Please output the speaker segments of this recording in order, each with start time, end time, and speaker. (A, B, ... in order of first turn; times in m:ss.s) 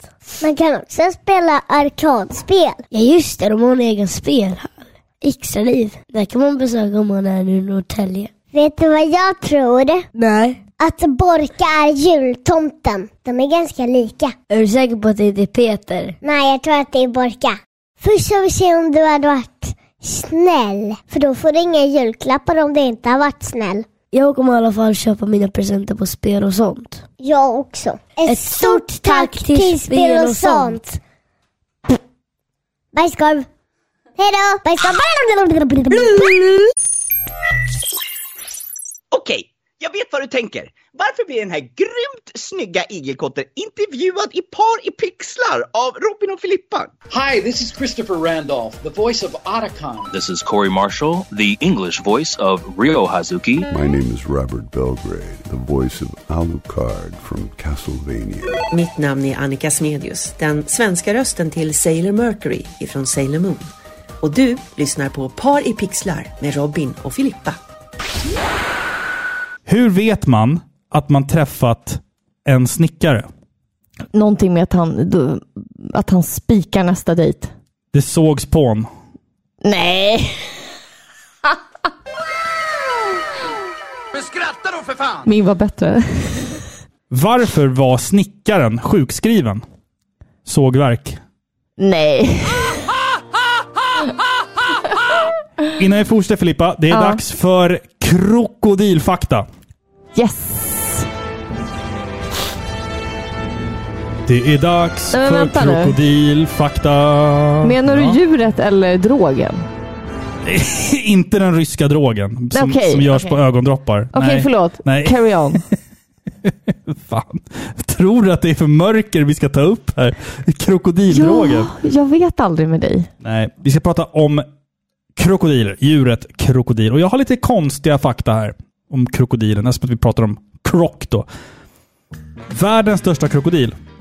0:00.4-0:02.8 A
0:02.9-0:08.3 B
0:08.5-0:10.0 A
0:10.2-0:10.6 B
0:10.7-0:14.4 A
0:14.5-0:16.2 B
0:16.2-0:23.9 A
0:24.1-0:27.0 B
0:27.2-0:31.0 A
0:28.2-0:30.8 B
0:32.9-0:33.5 A
0:34.2-0:36.4 A
0:36.0-0:36.4 B
0:39.1-0:46.9 C
0:47.1-0:50.1 D
0:50.1-0:53.7 E
0:53.7-0:58.6 F
0:58.7-1:03.7 G
1:04.2-1:07.6 G
1:09.7-1:13.3 H
1:14.1-1:17.5 I
1:17.9-1:18.9 H
1:19.6-1:20.5 I
1:25.2-1:26.6 I
1:27.1-1:29.6 H
1:30.4-1:31.2 H
1:31.8-1:32.8 I
1:35.8-1:39.5 H
1:36.9-1:37.2 I
1:40.2-1:41.1 I
1:44.3-1:48.2 H
1:45.1-1:46.0 I
1:47.6-1:49.6 I
1:50.4-1:55.7 H
1:52.5-1:53.4 I
1:54.1-1:55.6 I
1:56.4-2:01.7 H
2:01.1-2:03.1 I
2:03.2-2:04.4 H
2:05.2-2:11.3 H
2:12.5-2:13.8 H